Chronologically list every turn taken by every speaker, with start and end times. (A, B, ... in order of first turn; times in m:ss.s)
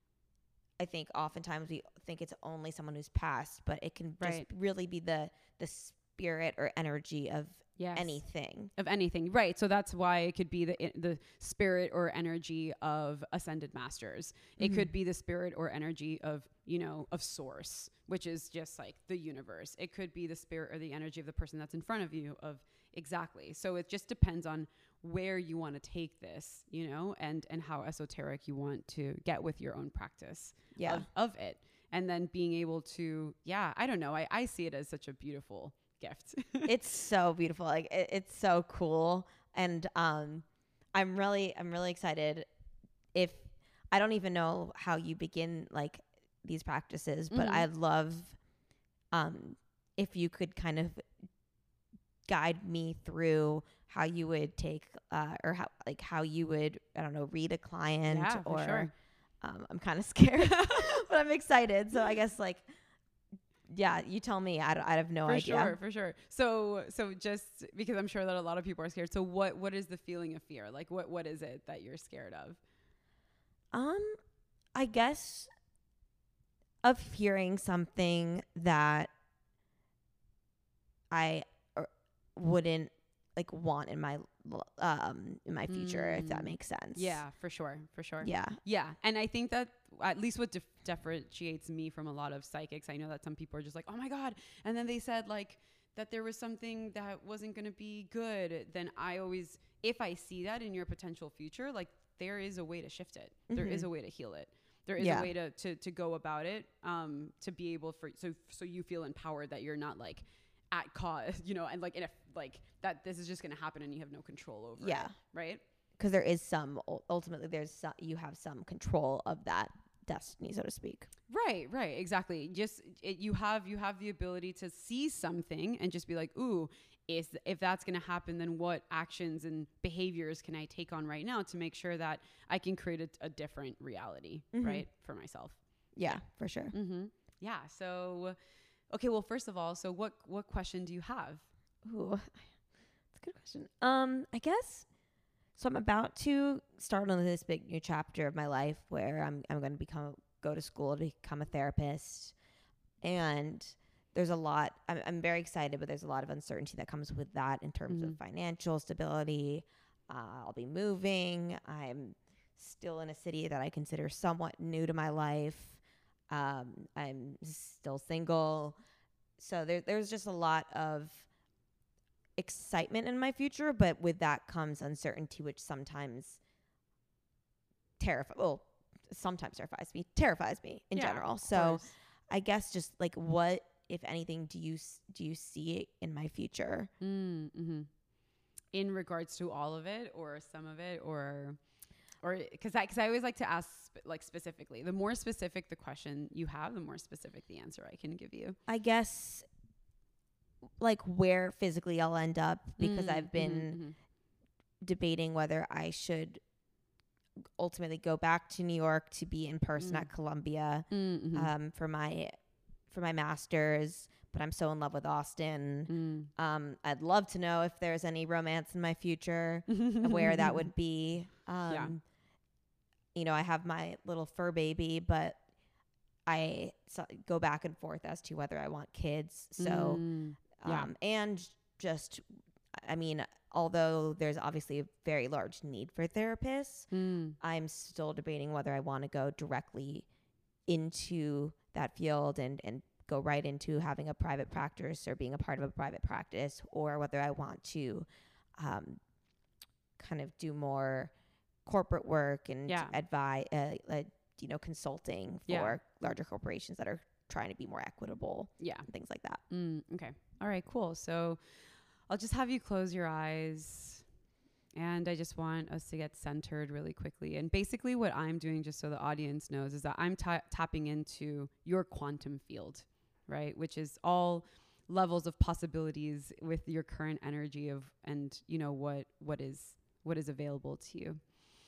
0:00.8-0:08.7 A
0:04.2-0:04.5 B
0:07.8-0:08.2 B
0:08.8-0:36.7 B
0:14.6-0:14.9 A
0:30.8-0:31.1 A
0:36.7-0:42.5 A
0:43.1-0:48.4 A
0:47.3-0:47.7 B
0:49.1-0:51.1 A
0:52.3-1:02.7 A
0:58.1-0:58.9 B
1:00.4-1:01.0 B
1:03.7-1:05.8 A
1:05.2-1:12.6 B
1:13.7-1:14.2 A
1:14.7-1:15.5 A
1:16.8-1:19.1 A
1:21.1-1:27.2 A
1:25.7-1:55.6 B
1:28.2-1:28.6 A
1:43.5-1:43.9 A
1:45.0-1:45.3 A
1:54.8-1:55.2 A
1:56.0-2:01.1 A
2:01.3-2:15.6 B
2:14.5-2:14.9 A
2:16.0-2:16.8 A
2:16.7-2:18.4 B
2:18.9-2:21.4 B
2:21.8-2:22.5 A
2:23.1-2:24.9 A
2:25.6-2:32.4 A
2:33.0-2:48.8 A
2:37.9-2:38.2 B
2:49.4-2:51.3 A
2:52.4-2:56.4 A
2:58.0-3:06.9 A
3:00.9-3:01.9 B
3:07.0-3:07.9 B
3:08.7-3:11.6 B
3:12.2-3:18.6 B
3:18.7-3:19.5 A
3:20.8-3:23.8 A
3:22.8-3:24.0 B
3:24.8-3:26.4 A
3:27.6-3:32.3 A
3:29.8-3:30.1 B
3:30.9-3:31.5 B
3:32.9-3:42.0 A
3:35.9-3:36.3 B
3:39.7-3:40.7 B
3:41.7-3:41.9 B
3:43.1-3:45.4 A
3:46.3-3:50.0 A
3:49.6-3:50.9 B
3:50.6-3:52.2 A
3:52.8-3:56.9 A
3:56.9-3:57.4 B
3:57.4-4:00.1 A
4:00.7-4:09.0 A
4:10.0-4:11.1 A
4:11.7-4:19.4 A
4:12.7-4:13.0 B
4:15.5-4:15.8 B
4:18.6-4:18.9 B
4:19.5-4:21.4 B
4:22.1-4:24.0 B
4:24.7-4:41.3 B